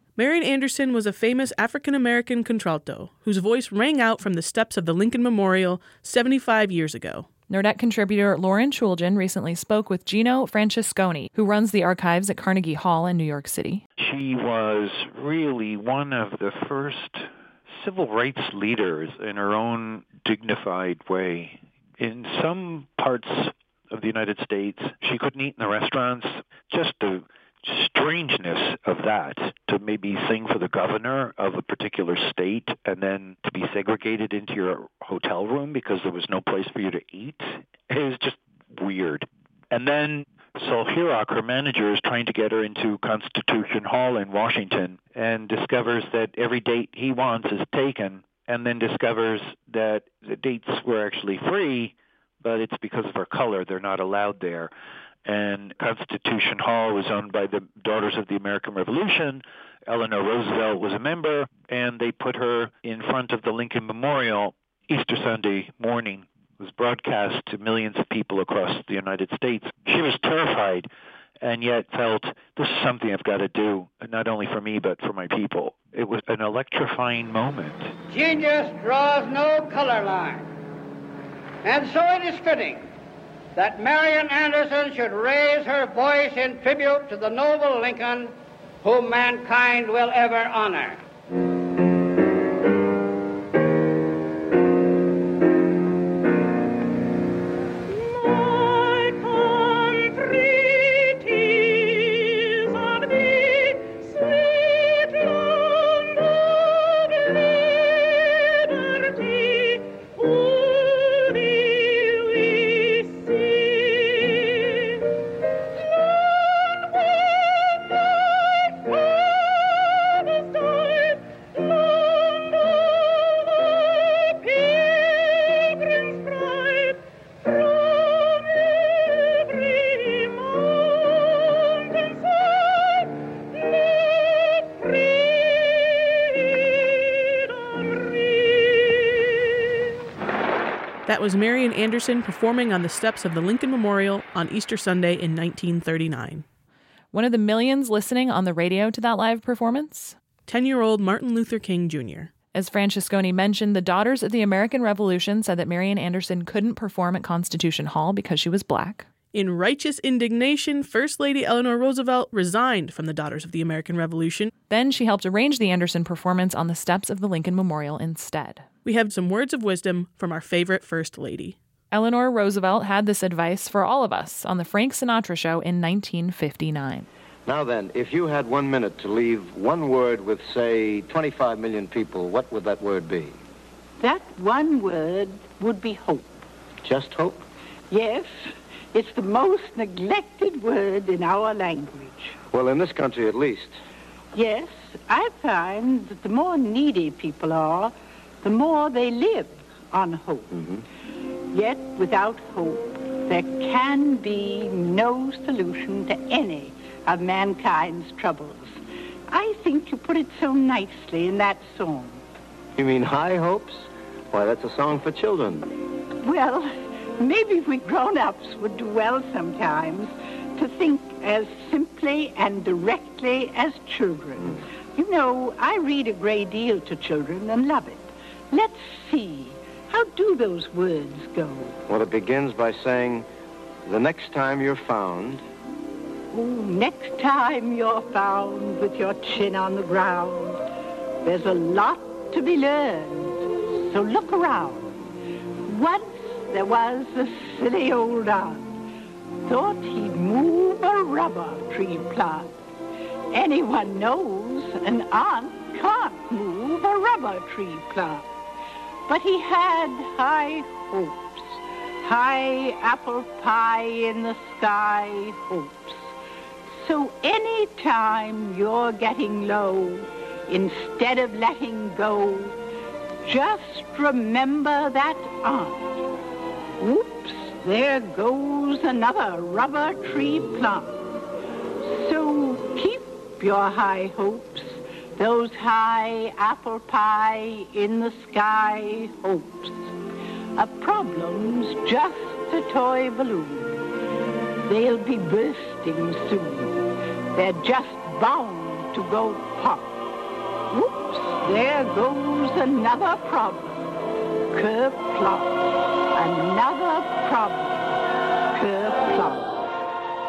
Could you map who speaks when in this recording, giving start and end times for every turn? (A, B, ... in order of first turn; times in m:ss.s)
0:00.2-0:07.3 A
0:07.5-0:13.8 B
0:14.0-0:54.7 C
0:55.2-1:10.9 C
1:11.4-1:17.9 C
1:18.1-1:20.5 D
1:21.6-1:22.9 D
1:23.6-1:31.0 D
2:21.1-2:26.4 A
2:27.1-2:30.2 B
2:30.5-2:32.3 A
2:32.5-2:39.1 B
2:39.3-2:44.5 A
2:44.7-2:48.7 B
2:48.8-2:51.6 A
2:51.9-2:57.1 B
2:57.5-3:03.4 E
3:04.0-3:06.3 F
3:06.8-3:07.4 E
3:07.9-3:12.4 F
3:12.5-3:13.7 E
3:14.3-3:20.5 F
3:20.5-3:20.8 E
3:21.5-3:32.2 F
3:32.8-3:35.7 E
3:36.2-3:51.8 F
3:51.9-3:53.3 E
3:53.8-3:55.4 E
3:56.3-4:00.6 F
4:01.2-4:05.0 F
4:05.7-4:08.7 F
4:09.4-4:12.5 F
4:13.3-4:18.3 F
4:19.1-4:26.1 F
4:26.7-4:32.6 F
4:33.2-4:36.0 F
4:36.8-4:41.1 F
4:41.8-4:49.9 F
4:50.6-4:53.8 F
4:54.6-5:00.0 F
5:00.7-5:03.9 F
5:04.5-5:05.6 F
5:06.1-5:08.0 F
5:08.5-5:09.6 F